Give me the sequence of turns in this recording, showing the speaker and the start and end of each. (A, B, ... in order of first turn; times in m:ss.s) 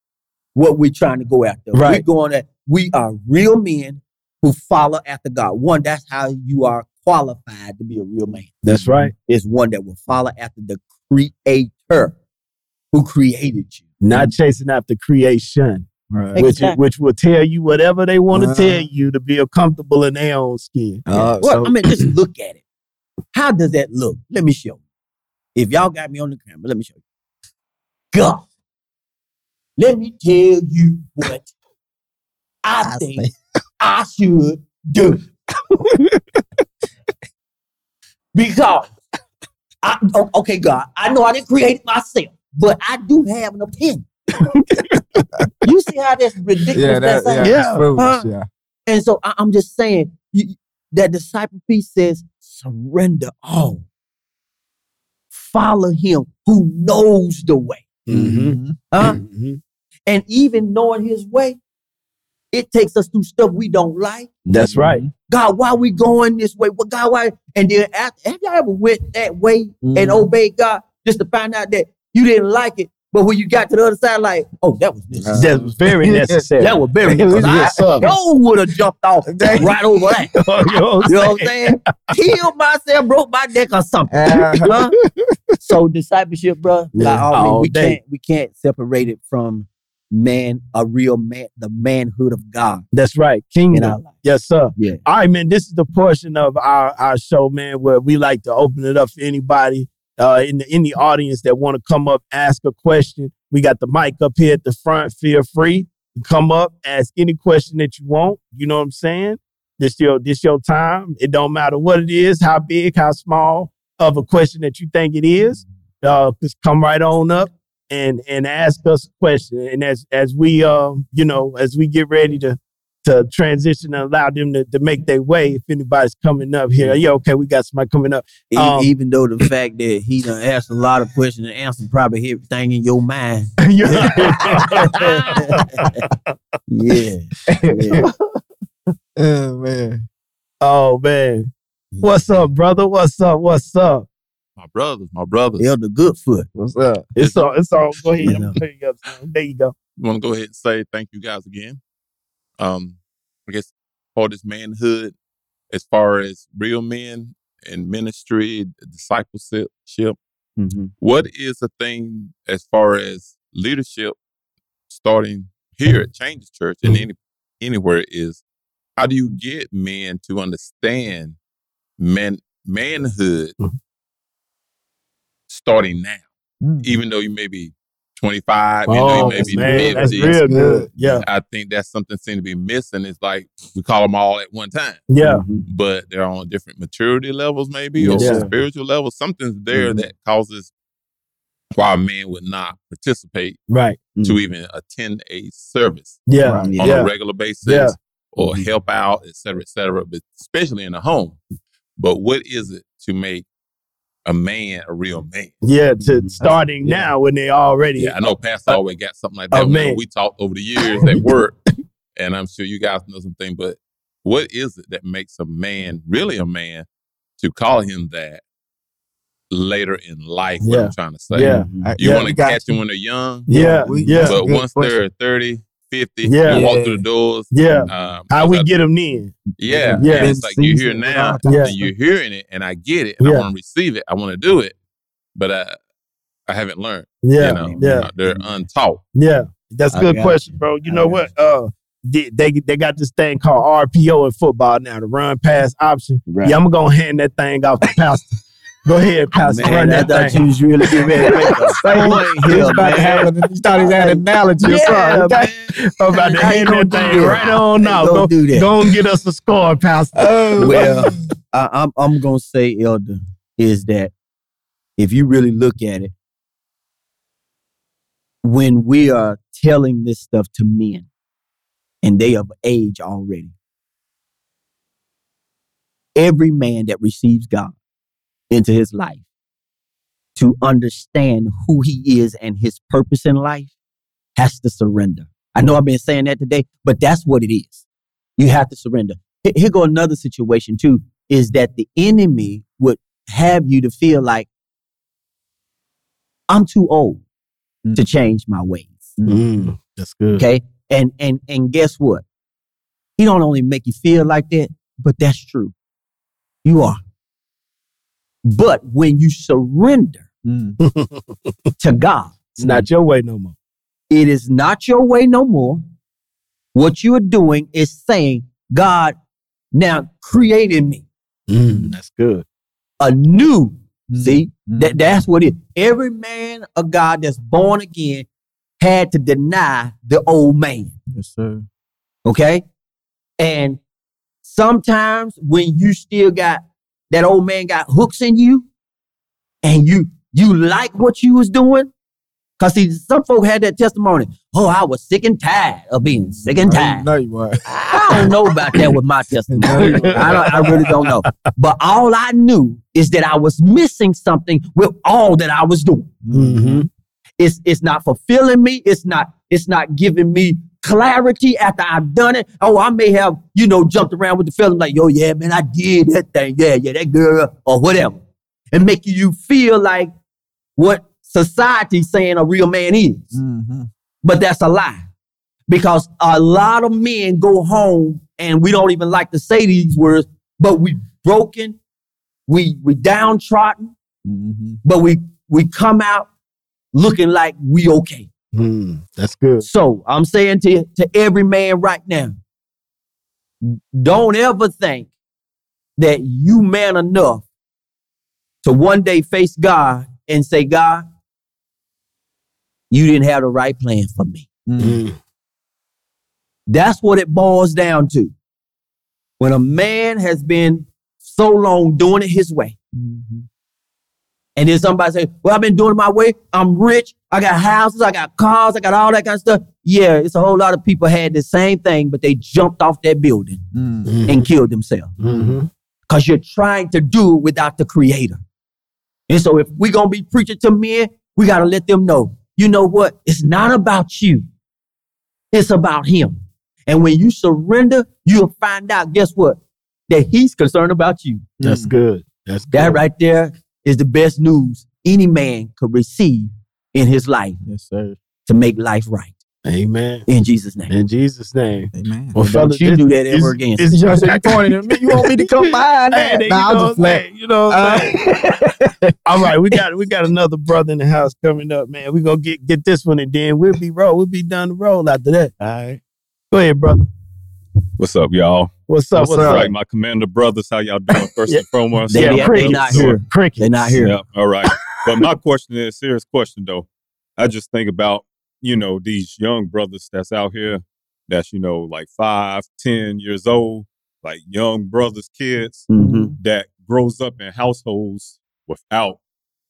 0:00.5-0:08.6 A
0:01.7-0:02.0 B
0:08.6-0:09.1 B
0:08.7-0:09.1 C
0:09.2-0:12.2 A
0:12.9-0:13.8 A
0:14.0-0:21.0 B
0:16.1-0:16.4 C
0:16.4-0:16.8 A
0:18.3-0:18.9 C
0:21.0-0:22.1 C
0:21.4-0:22.6 A
0:23.3-0:24.8 A
0:25.6-0:27.0 A
0:28.1-0:28.4 A
0:29.8-0:31.5 A
0:32.6-0:33.3 A
0:32.9-0:33.3 C
0:33.8-0:35.2 A
0:38.3-0:38.9 A
0:39.8-0:44.1 A
0:44.4-0:45.2 B
0:45.6-0:48.3 A
0:46.7-0:48.5 C
0:47.4-0:47.9 B
0:48.9-0:53.8 A
0:55.3-0:57.8 A
0:58.1-0:59.6 B
0:58.1-0:58.8 C
0:58.9-0:59.2 A
1:00.1-1:01.6 A
1:02.5-1:04.4 A
1:04.5-1:05.0 B
1:04.5-1:05.1 C
1:05.3-1:15.8 A
1:09.8-1:10.3 C
1:15.1-1:18.1 C
1:15.4-1:18.1 B
1:16.6-1:20.4 A
1:19.3-1:19.7 C
1:20.3-1:21.8 B
1:21.0-1:24.9 A
1:24.1-1:25.3 C
1:25.6-1:32.8 A
1:26.9-1:28.0 B
1:32.9-2:08.9 B
1:33.7-1:34.1 A
1:34.8-1:35.0 A
2:08.5-2:15.6 A
2:13.6-2:16.1 B
2:16.7-2:18.0 A
2:17.5-2:18.0 C
2:19.2-2:20.0 C
2:20.6-2:21.5 B
2:21.9-2:22.2 A
2:22.0-2:24.1 B
2:24.6-2:25.7 D
2:25.6-2:26.5 A
2:26.5-2:27.1 C
2:27.1-2:29.7 B
2:27.2-2:27.5 D
2:28.2-2:28.6 A
2:30.0-2:31.8 D
2:32.6-2:35.1 D
2:35.7-2:40.2 D
2:40.6-2:40.9 A
2:41.0-2:44.2 D
2:44.9-2:48.4 D
2:49.0-2:51.4 D
2:52.0-2:53.6 D
2:55.5-2:56.3 D
2:56.6-2:57.0 C
2:56.8-3:00.4 D
2:58.9-3:01.2 B
2:59.1-3:01.2 C
3:01.2-3:05.0 D
3:05.1-3:05.4 B
3:05.2-3:05.6 A
3:05.6-3:10.7 D
3:08.0-3:08.5 A
3:08.1-3:08.5 C
3:08.1-3:08.5 B
3:09.7-3:10.0 A
3:11.7-3:13.6 D
3:13.7-3:14.0 B
3:14.2-3:14.4 A
3:14.2-3:16.2 D
3:16.3-3:17.1 B
3:16.4-3:16.7 C
3:16.6-3:17.0 A
3:16.8-3:21.4 D
3:17.6-3:18.0 B
3:18.4-3:18.7 A
3:22.0-3:23.4 D
3:24.2-3:25.6 D
3:25.6-3:28.8 B
3:26.0-3:26.4 A
3:26.4-3:27.1 C
3:28.0-3:31.6 D
3:29.5-3:30.0 B
3:31.0-3:31.3 B
3:32.2-3:36.9 D
3:37.4-3:38.4 D
3:39.5-3:48.7 D
3:40.6-3:42.3 B
3:41.4-3:41.9 A
3:41.8-3:42.8 C
3:43.5-3:44.4 B
3:43.5-3:45.0 C
3:46.2-3:46.7 B
3:46.5-3:47.0 C
3:47.5-3:49.4 B
3:49.6-3:54.8 D
3:49.9-3:50.4 B
3:50.0-3:51.9 C
3:51.4-3:51.7 B
3:53.2-3:53.5 B
3:55.3-3:55.8 D
3:56.4-3:59.0 D
3:57.2-3:58.1 B
3:57.4-3:58.6 A
3:59.1-4:08.3 B
3:59.9-4:01.2 A
4:06.3-4:06.6 A
4:08.8-4:13.3 B
4:09.4-4:13.3 A
4:09.9-4:10.4 C
4:11.1-4:15.5 C
4:13.8-4:15.7 A
4:13.8-4:14.9 B
4:15.8-4:21.1 B
4:16.1-4:17.6 C
4:16.2-4:18.7 A
4:20.2-4:21.2 C
4:20.6-4:24.1 A
4:25.0-4:26.1 A
4:28.4-4:31.1 A
4:32.0-4:33.5 A
4:36.2-4:37.7 A
4:38.5-4:39.2 A
4:40.4-4:43.7 A
4:44.4-4:47.8 A
4:48.4-4:54.5 A
4:56.5-4:57.2 A
4:58.0-4:59.1 A
4:59.2-4:59.4 C
4:59.3-5:00.4 B
5:00.4-5:02.2 A
5:03.2-5:05.7 A
5:06.6-5:07.0 A
5:08.4-5:10.3 A
5:10.4-5:10.8 C
5:10.8-5:11.2 B
5:11.8-5:12.5 A
5:12.6-5:13.5 B
5:14.1-5:15.8 A
5:16.7-5:19.2 A
5:19.7-5:21.0 A
5:21.5-5:22.4 B
5:23.0-5:28.3 A
5:24.1-5:25.0 C
5:28.8-5:30.9 A
5:31.1-5:31.6 C
5:32.2-5:32.6 A
5:33.4-5:33.8 A
5:34.4-5:38.7 A
5:39.6-5:41.9 A
5:42.6-5:47.1 A
5:46.4-5:48.8 C
5:47.7-5:56.1 A
5:49.5-5:51.0 C
5:49.8-5:51.1 B
5:56.2-5:56.8 C
5:56.3-5:56.9 B
5:57.4-6:08.2 A
6:08.7-6:10.1 A
6:10.8-6:13.4 A
6:13.3-6:13.9 C
6:14.2-6:15.0 A
6:15.7-6:21.8 A
6:22.5-6:23.9 A
6:24.2-6:24.8 C
6:24.8-6:26.3 A
6:26.9-6:28.3 A
6:28.5-6:29.6 B
6:29.6-6:32.4 A
6:33.6-6:35.1 A
6:36.0-6:37.4 A
6:38.6-6:41.0 A
6:42.9-6:44.5 A
6:44.7-6:45.0 C
6:44.8-6:45.1 B
6:46.7-6:48.3 A
6:49.4-6:52.8 A
6:53.0-6:53.4 C
6:54.6-7:03.6 A
7:03.7-7:04.1 C
7:04.0-7:04.5 B
7:04.2-7:05.1 A
7:05.2-7:05.7 B
7:05.2-7:05.6 C
7:06.1-7:08.4 A
7:09.3-7:14.5 A
7:15.5-7:21.5 A
7:21.6-7:21.9 C
7:21.6-7:23.0 B
7:22.7-7:27.6 A
7:27.6-7:28.2 C
7:28.4-7:29.4 A
7:29.6-7:30.2 B
7:30.3-7:30.9 A
7:30.9-7:38.3 B
7:31.9-7:32.4 C
7:32.4-7:33.9 A
7:33.9-7:39.1 C
7:39.2-7:45.5 B
7:45.6-7:46.0 A
7:46.5-7:47.1 B
7:48.0-7:53.2 E
7:48.9-7:49.7 B
7:49.2-7:49.7 C
7:51.5-7:54.0 B
7:52.1-7:54.2 A
7:54.0-8:09.2 E
8:05.9-8:06.3 A
8:06.0-8:06.3 C